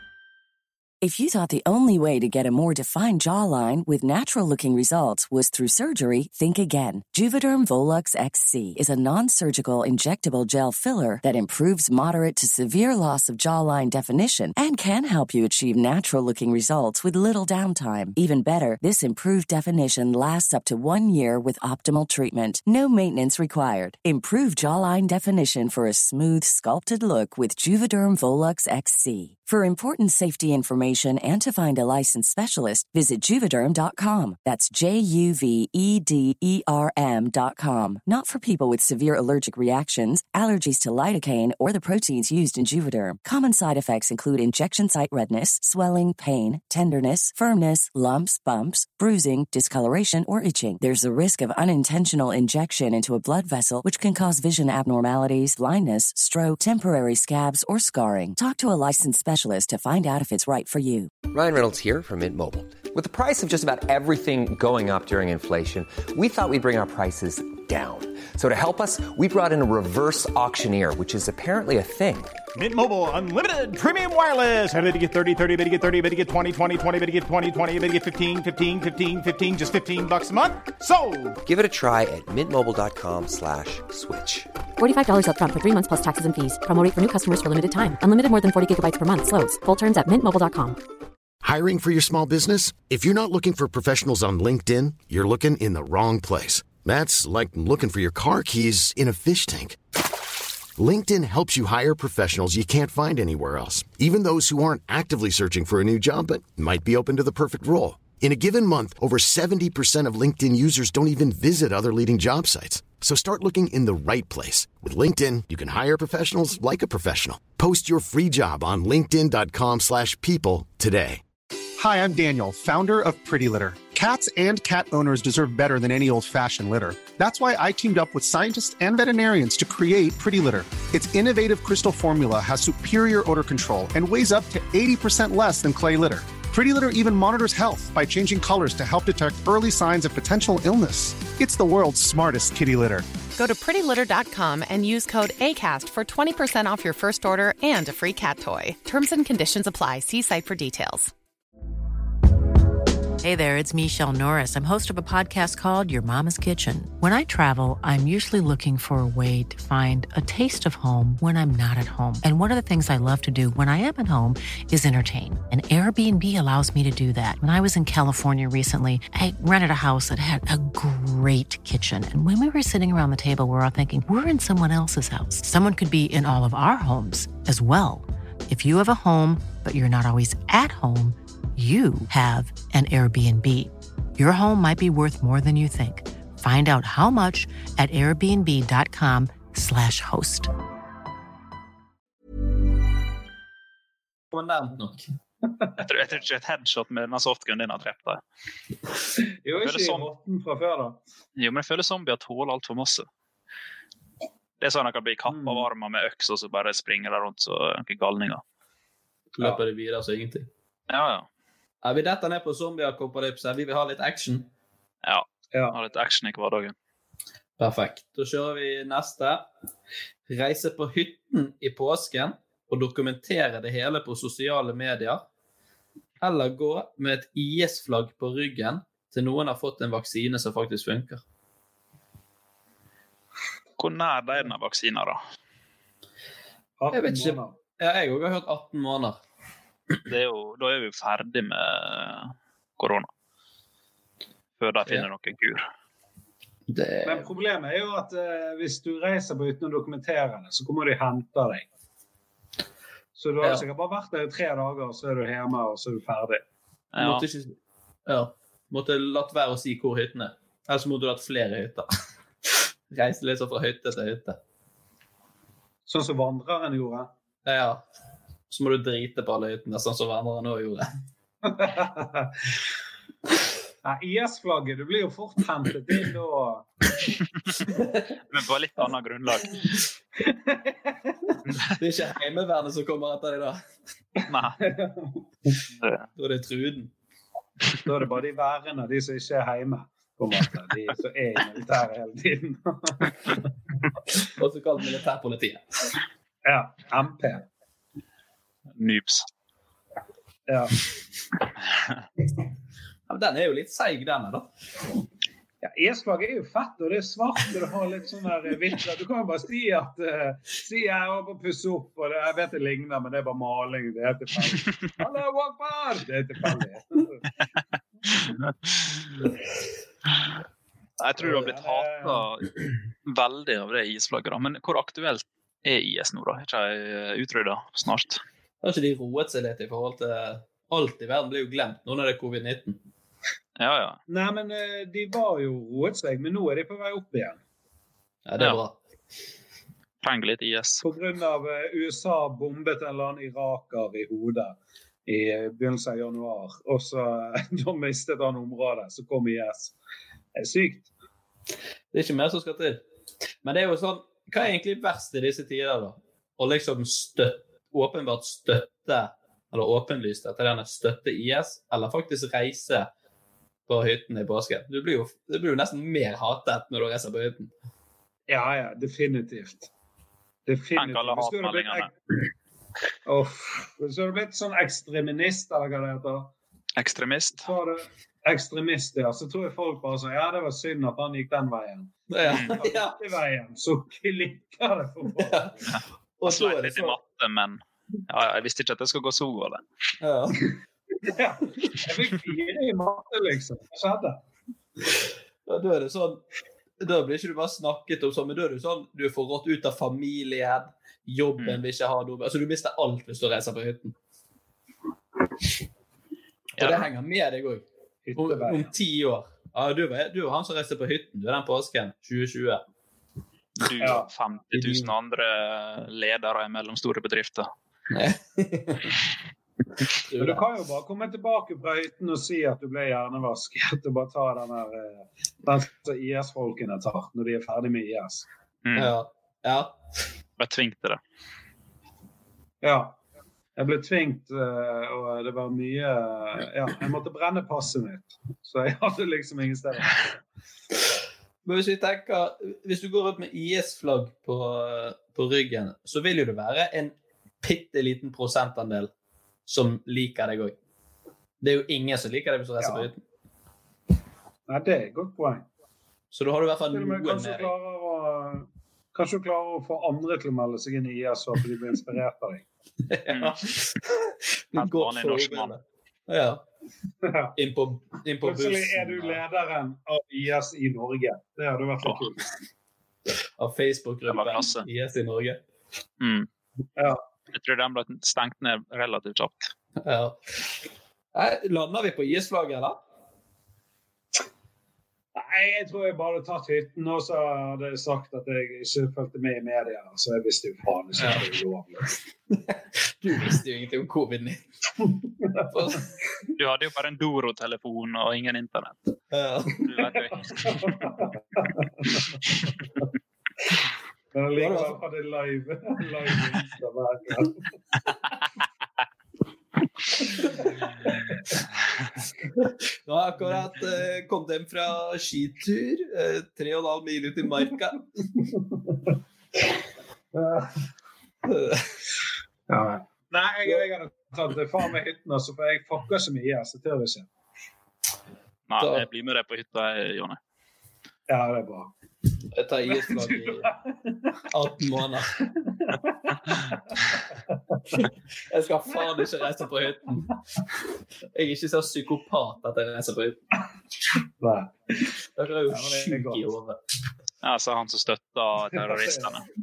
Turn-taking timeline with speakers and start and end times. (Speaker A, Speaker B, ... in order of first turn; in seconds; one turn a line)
Speaker A: 1.0-61.1
Speaker B: 61.3-72.4
Speaker C: 72.5-81.4
Speaker B: 81.4-84.5
Speaker D: 84.8-90.8
Speaker E: 91.4-99.8
Speaker E: 100.8-121.2
Speaker F: 121.8-143.1
Speaker G: 143.3-151.1
Speaker H: 153.2-190.5
Speaker I: 194.3-195.1
Speaker J: 195.4-196.1
Speaker K: 195.8-198.2
Speaker J: 199.4-201.0
Speaker K: 199.5-200.1
Speaker K: 201.4-203.1
Speaker K: 204.6-208.4
Speaker J: 205.3-205.7
Speaker I: 209.3-210.5
Speaker K: 210.9-211.3
Speaker I: 211.8-214.5
Speaker K: 215.0-216.7
Speaker I: 217.6-219.5
Speaker I: 220.3-225.2
Speaker I: 226.2-231.2
Speaker K: 233.8-235.2
Speaker J: 236.8-237.5
Speaker I: 236.9-239.2
Speaker K: 240.1-243.1
Speaker K: 244.6-245.7
Speaker I: 246.7-247.3
Speaker J: 247.0-251.7
Speaker J: 253.2-256.4
Speaker K: 256.9-257.2
Speaker I: 257.0-257.5
Speaker I: 258.1-261.9
Speaker I: 262.9-264.4
Speaker J: 265.9-267.1
Speaker I: 267.4-267.8
Speaker I: 268.5-270.9
Speaker J: 271.4-272.4
Speaker J: 273.8-276.7
Speaker I: 277.7-278.0
Speaker K: 278.3-279.6
Speaker J: 280.2-281.3
Speaker I: 281.8-283.6
Speaker K: 284.3-284.6
Speaker J: 284.6-285.5
Speaker K: 285.8-286.1
Speaker I: 286.2-286.9
Speaker J: 287.8-293.5
Speaker I: 294.2-295.9
Speaker J: 296.4-297.4
Speaker K: 298.8-299.2
Speaker J: 300.5-300.8
Speaker I: 303.1-304.5
Speaker J: 305.6-317.2
Speaker K: 321.0-322.5
Speaker J: 321.2-322.2
Speaker K: 323.1-328.2
Speaker I: 328.6-332.8
Speaker K: 333.6-334.0
Speaker J: 334.1-337.4
Speaker I: 338.2-338.8
Speaker K: 340.0-340.8
Speaker J: 340.8-349.7
Speaker J: 350.4-350.9
Speaker I: 351.9-352.8
Speaker I: 353.4-362.9
Speaker I: 363.7-367.5
Speaker J: 368.3-369.7
Speaker J: 370.4-371.9
Speaker K: 370.8-371.9
Speaker J: 373.1-376.3
Speaker K: 376.8-377.5
Speaker J: 377.4-385.6
Speaker I: 382.1-382.9
Speaker K: 382.3-382.6
Speaker I: 385.2-385.6
Speaker K: 385.6-389.6
Speaker I: 386.2-387.0
Speaker I: 390.0-390.5
Speaker J: 391.0-394.2
Speaker I: 395.4-396.2
Speaker I: 396.8-403.9
Speaker I: 406.6-407.6
Speaker K: 406.6-406.9
Speaker J: 408.0-408.7
Speaker I: 408.2-412.6
Speaker K: 413.6-417.5
Speaker J: 413.8-414.1
Speaker I: 414.5-414.9
Speaker I: 417.9-418.9
Speaker I: 420.1-420.4
Speaker J: 420.2-428.3
Speaker K: 428.6-428.9
Speaker I: 428.7-429.7
Speaker K: 430.4-431.0
Speaker J: 432.6-433.0
Speaker J: 433.6-440.2
Speaker I: 441.4-448.9
Speaker I: 449.5-450.6
Speaker I: 451.4-453.0
Speaker J: 452.6-452.9
Speaker J: 454.5-455.4
Speaker I: 456.1-457.5
Speaker J: 456.7-462.4
Speaker I: 462.9-466.4
Speaker K: 463.1-463.4
Speaker K: 464.6-465.5
Speaker J: 467.0-467.3
Speaker I: 467.4-469.2
Speaker J: 468.2-472.2
Speaker I: 473.4-475.4
Speaker K: 474.1-474.6
Speaker K: 476.0-476.3
Speaker J: 476.8-477.0
Speaker K: 477.3-479.5
Speaker I: 479.8-480.5
Speaker I: 481.1-482.8
Speaker J: 485.1-491.9
Speaker I: 491.0-491.2
Speaker I: 492.3-494.4
Speaker I: 495.5-495.9
Speaker K: 496.4-498.8
Speaker I: 499.1-499.7
Speaker K: 499.6-500.8
Speaker J: 500.4-502.3
Speaker J: 504.1-507.4
Speaker I: 504.4-504.8
Speaker I: 512.3-517.8
Speaker J: 520.1-520.5
Speaker I: 521.2-521.6
Speaker J: 522.5-527.1
Speaker K: 528.5-530.2
Speaker I: 528.6-528.8
Speaker J: 531.1-531.7
Speaker I: 532.3-533.5
Speaker J: 532.6-534.0
Speaker I: 534.3-535.1
Speaker J: 535.5-536.9
Speaker J: 537.5-537.9
Speaker I: 538.3-540.1
Speaker I: 541.1-543.2
Speaker J: 544.2-544.5
Speaker I: 545.1-546.6
Speaker J: 545.5-546.2
Speaker K: 547.2-549.2
Speaker J: 548.5-549.0